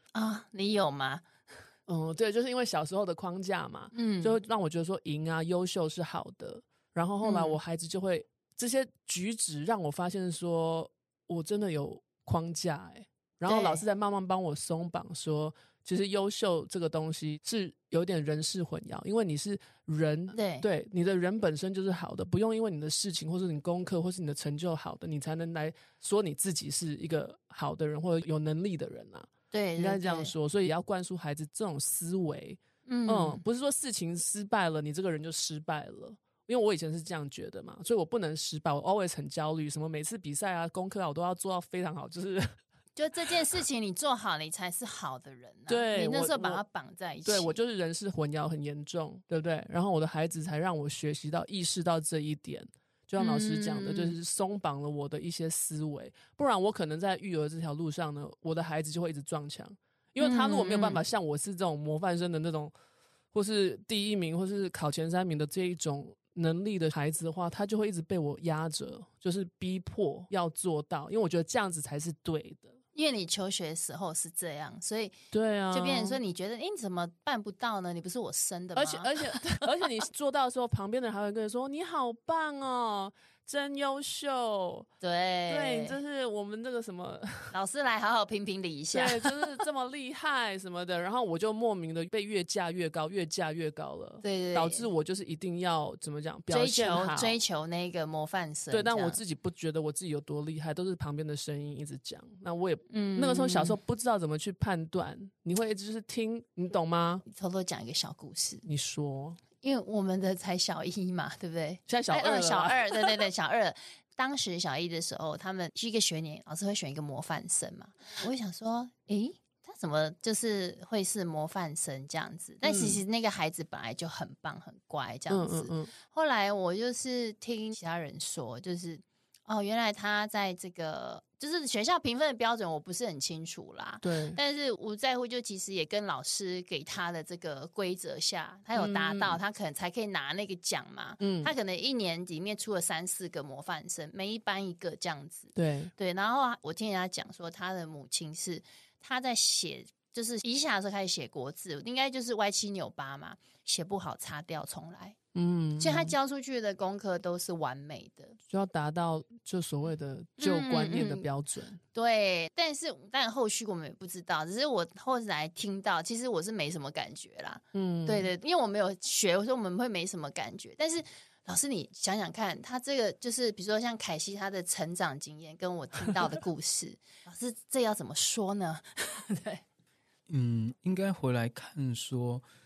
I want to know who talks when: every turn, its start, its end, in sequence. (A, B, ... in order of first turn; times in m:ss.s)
0:00.1-0:01.2 A
0:01.9-0:42.6 B
0:03.9-0:04.4 A
0:07.2-0:07.6 A
0:13.5-0:13.8 A
0:20.3-0:20.6 A
0:29.5-0:30.3 A
0:32.9-0:33.4 A
0:43.0-0:47.5 A
0:45.7-0:46.6 B
0:47.2-1:02.7 B
0:53.2-0:54.2 A
1:00.2-1:01.0 A
1:03.3-1:12.8 B
1:12.9-1:15.2 A
1:15.3-1:16.2 B
1:15.7-1:19.6 A
1:18.8-1:24.9 B
1:25.0-1:26.0 A
1:25.5-1:27.5 B
1:27.5-1:29.6 A
1:28.9-1:37.4 B
1:34.2-1:34.9 A
1:36.5-1:39.2 A
1:38.7-1:47.2 B
1:42.9-1:43.8 A
1:47.2-1:48.6 A
1:48.6-1:49.4 B
1:49.6-2:35.2 A
1:51.9-1:53.2 B
2:02.6-2:03.0 B
2:05.3-2:05.9 B
2:14.0-2:14.4 B
2:18.8-2:19.4 B
2:21.2-2:21.5 B
2:25.6-2:25.9 B
2:35.3-2:36.1 B
2:35.8-2:38.4 A
2:38.5-2:41.8 B
2:40.4-2:41.3 A
2:41.9-2:59.6 A
2:47.7-2:48.3 B
3:00.3-3:02.4 C